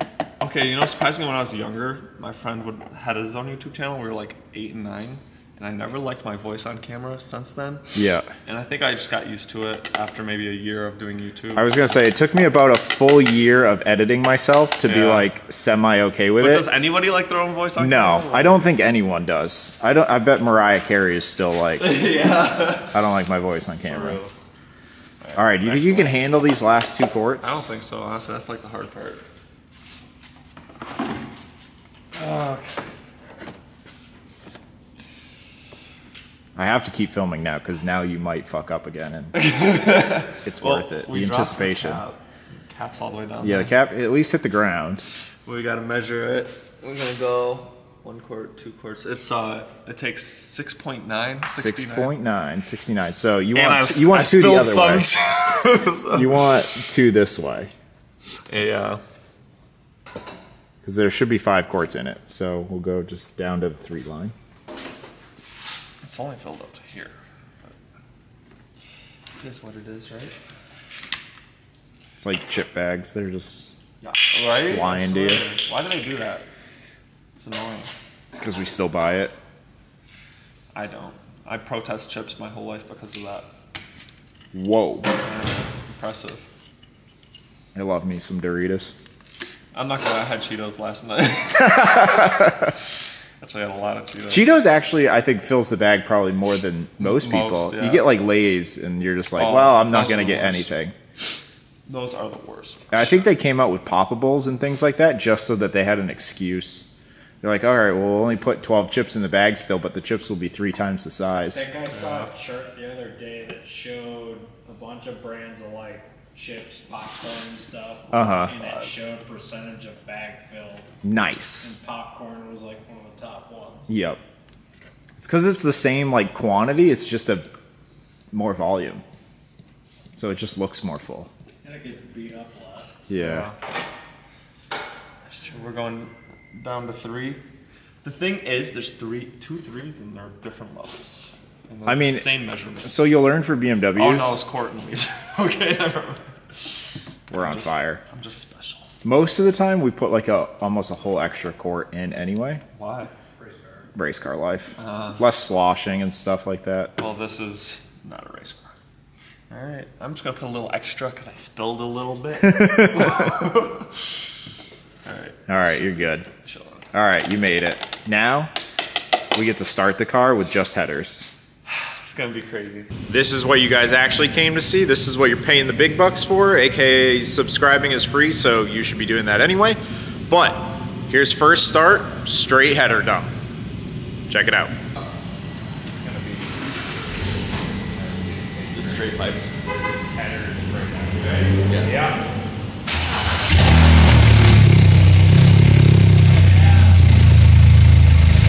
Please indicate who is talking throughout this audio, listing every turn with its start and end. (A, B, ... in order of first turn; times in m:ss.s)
0:00.4-0:07.9 A
0:07.9-0:08.3 B
0:08.4-0:12.0 A
0:11.5-0:16.7 B
0:14.8-0:15.3 A
0:16.4-0:18.6 A
0:17.8-0:22.1 B
0:21.8-0:23.0 A
0:22.8-0:24.2 B
0:23.8-0:24.3 A
0:25.2-0:26.2 A
0:25.3-0:27.6 B
0:27.4-0:29.2 A
0:32.1-0:32.8 A
0:36.6-0:39.4 B
0:39.3-0:43.7 A
0:40.4-0:42.0 B
0:43.4-0:45.0 B
0:45.4-0:52.1 A
0:51.5-0:55.1 B
0:53.0-0:56.5 A
0:56.0-0:57.7 B
0:58.5-0:59.0 A
1:00.8-1:04.3 B
1:06.0-1:07.1 A
1:09.4-1:10.3 A
1:12.2-1:13.7 B
1:14.0-1:16.5 A
1:14.6-1:15.4 B
1:17.4-1:17.9 A
1:18.4-1:19.3 B
1:20.7-1:23.5 A
1:24.5-1:25.1 B
1:25.2-1:26.4 A
1:27.7-1:29.0 B
1:29.7-1:32.5 A
1:31.7-1:32.7 B
1:33.4-1:34.6 A
1:34.3-1:40.9 B
1:37.0-1:38.1 A
1:39.3-1:40.7 A
1:41.8-1:43.2 A
1:42.9-1:51.6 B
1:51.5-2:00.9 C
1:52.0-1:52.3 A
1:58.1-1:58.5 B
1:58.6-1:58.9 A
2:01.0-2:01.7 B
2:01.6-2:03.9 C
2:03.9-2:04.2 B
2:05.2-2:07.5 B
2:08.3-2:09.0 B
2:10.2-2:11.3 B
2:11.6-2:13.0 C
2:13.1-2:13.5 B
2:13.2-2:13.6 A
2:15.3-2:17.4 A
2:18.0-2:23.0 A
2:21.8-2:22.3 B
2:22.8-2:24.4 B
2:23.9-2:28.9 A
2:27.3-2:28.0 B
2:29.0-2:32.6 B
2:32.7-2:33.1 A
2:33.4-2:33.8 C
2:33.9-2:36.9 B
2:34.8-2:35.2 A
2:37.0-2:38.7 A
2:39.5-2:44.3 A
2:42.5-2:43.3 B
2:45.0-2:46.9 A
2:45.5-2:46.3 B
2:46.9-2:48.5 B
2:49.3-2:51.3 B
2:51.6-2:52.9 A
2:53.1-3:03.3 B
3:04.3-3:04.7 B
3:05.9-3:09.3 B
3:08.7-3:09.5 A
3:09.8-3:12.2 B
3:11.6-3:11.9 A